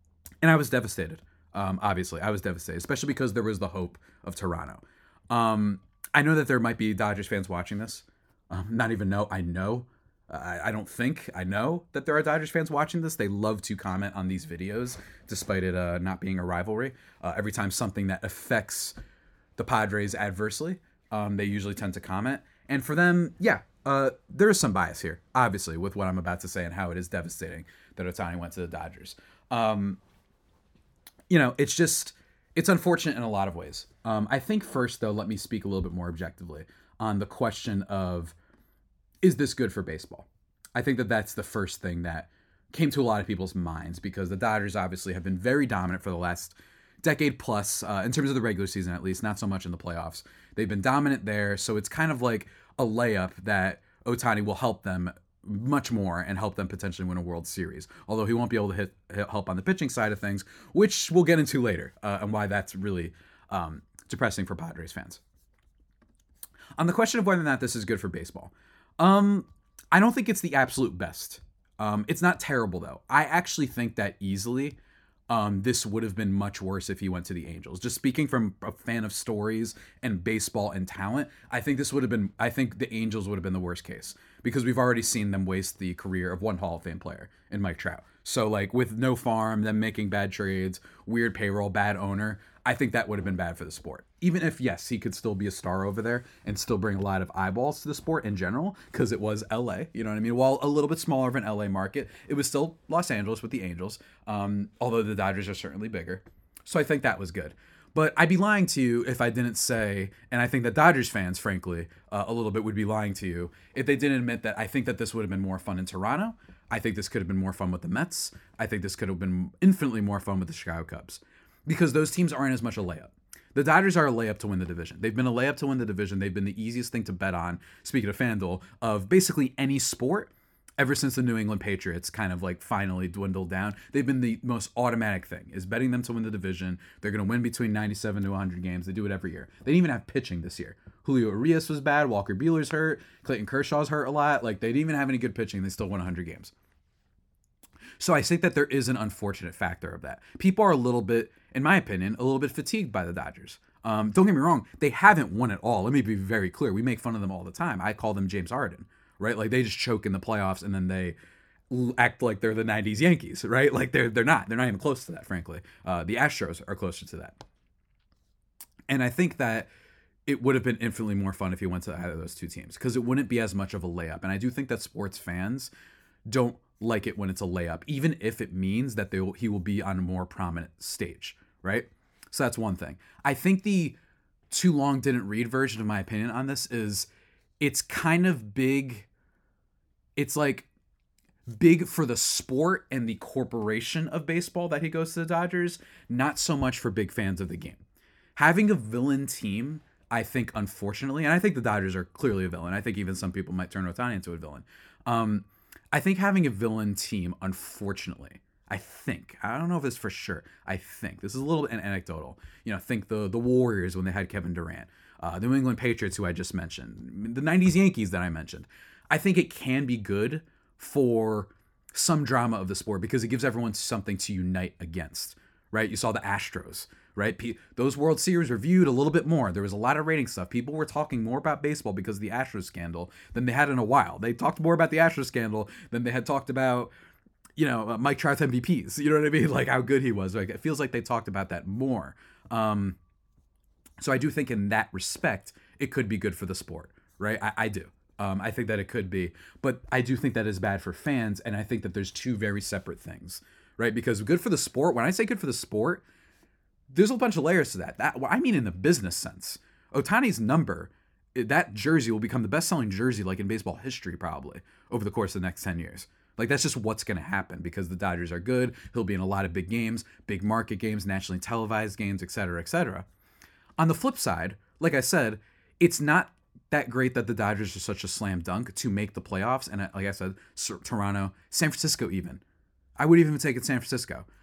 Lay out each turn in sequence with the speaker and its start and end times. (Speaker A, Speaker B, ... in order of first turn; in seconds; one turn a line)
Speaker A: 0.4-18.9
Speaker A: 19.6-30.0
Speaker A: 31.3-38.3
Speaker A: 39.2-65.2
Speaker A: 66.8-74.8
Speaker A: 75.3-146.5
Speaker A: 148.0-161.2
Speaker A: 161.7-167.4
Speaker A: 168.9-169.7
Speaker A: 170.2-175.7
Speaker A: 176.3-183.9
Speaker A: 184.5-187.1
Speaker A: 187.6-189.1
Speaker A: 190.2-190.7
Speaker A: 191.5-197.8
Speaker A: 198.3-236.9
Speaker A: 237.6-243.0
Speaker A: 244.0-256.0
Speaker A: 256.9-273.1
Speaker A: 273.8-282.4
Speaker A: 283.0-284.2